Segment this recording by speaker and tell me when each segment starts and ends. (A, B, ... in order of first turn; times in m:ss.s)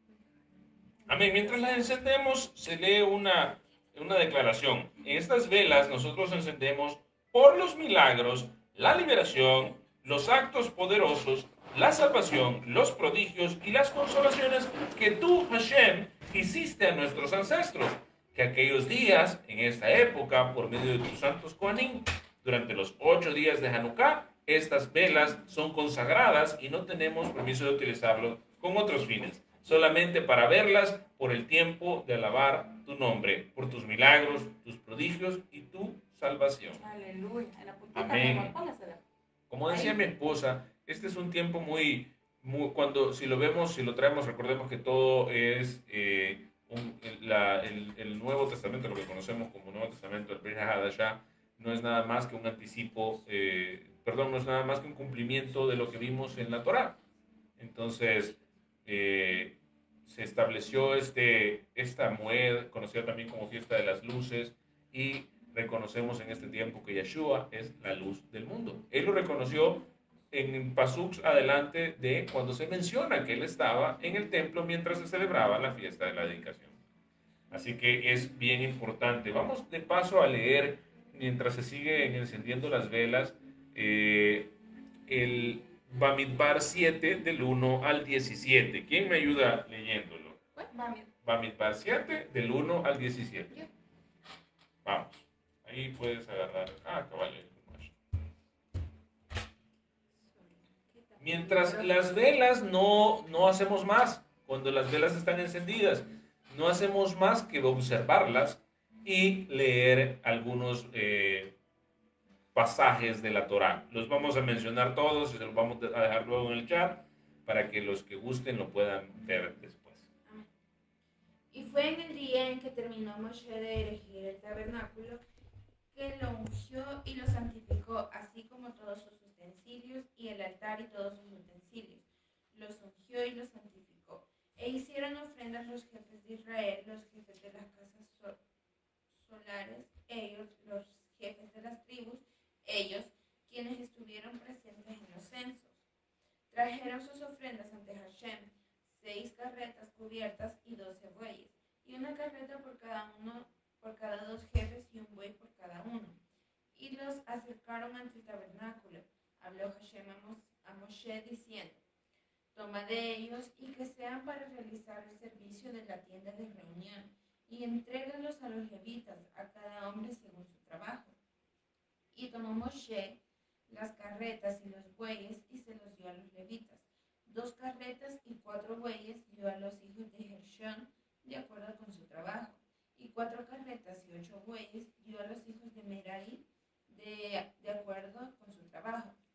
0:01.0-0:01.5 A
0:01.1-0:36.8 B
0:36.8-0:39.0 A
0:37.9-0:38.6 B
0:39.5-0:57.0 B
0:39.7-0:40.0 A
0:57.6-1:16.8 B
1:17.5-1:30.4 B
1:30.7-1:31.1 A
1:31.2-1:33.5 B
1:34.8-1:37.9 B
1:40.2-1:42.0 C
1:41.2-1:51.6 B
1:52.5-2:00.1 B
2:01.5-2:05.2 C
2:05.9-2:18.4 C
2:19.2-2:25.8 C
2:26.5-2:36.2 C
2:36.7-2:41.8 C
2:42.5-2:51.2 C
2:52.1-3:09.2 C